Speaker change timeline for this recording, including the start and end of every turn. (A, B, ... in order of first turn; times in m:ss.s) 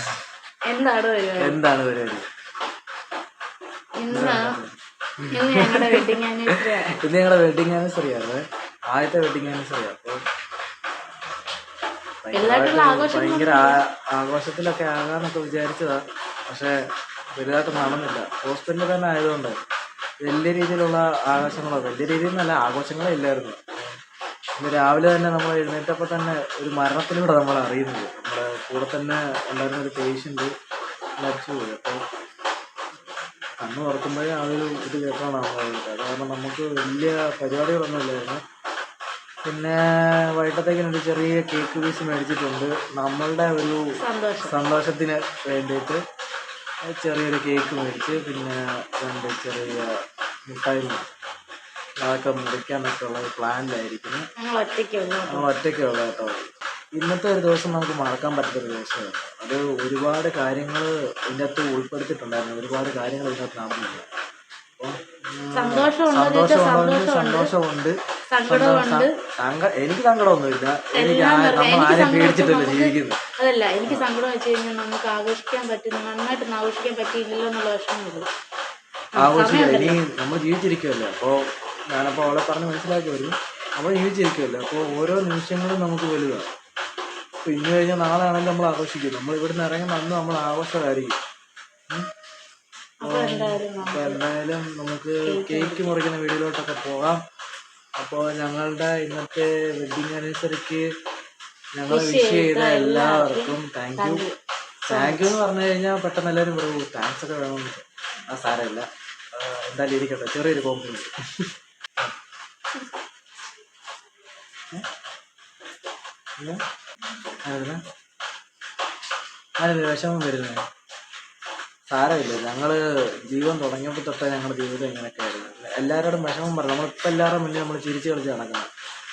0:00.6-0:01.6 A
0:01.4-0:02.2 B
0:04.0-0:04.5 A
0:04.1-0:10.2 B
0:05.3-0:07.0 A
0:12.2-0:16.7 B
0:12.3-0:13.8 A
0:17.3-0:19.6 B
0:20.2-0:24.0 B
0:24.6-0:30.5 B
0:31.2-0:32.0 B
0:33.6-0:38.4 B
0:39.4-0:43.8 B
0:44.0-0:44.5 A
0:44.4-0:46.0 B
0:46.9-0:49.9 B
0:50.5-0:51.1 B
0:52.0-0:54.3 B
0:54.4-0:55.5 A
0:55.3-1:04.0 B
1:04.8-1:13.2 B
1:05.5-1:07.5 A
1:08.3-1:09.1 A
1:10.9-1:18.3 A
1:19.1-1:20.0 A
1:19.2-1:21.4 B
1:21.9-1:26.5 B
1:27.4-1:31.2 B
1:33.0-1:34.2 A
1:33.0-1:37.2 B
1:35.2-1:35.9 A
1:38.0-1:40.9 B
1:41.7-1:44.2 B
1:41.9-1:44.4 A
1:44.9-1:45.3 A
1:44.9-1:52.1 B
1:57.4-1:57.8 B
1:59.6-2:00.6 B
2:01.9-2:08.7 B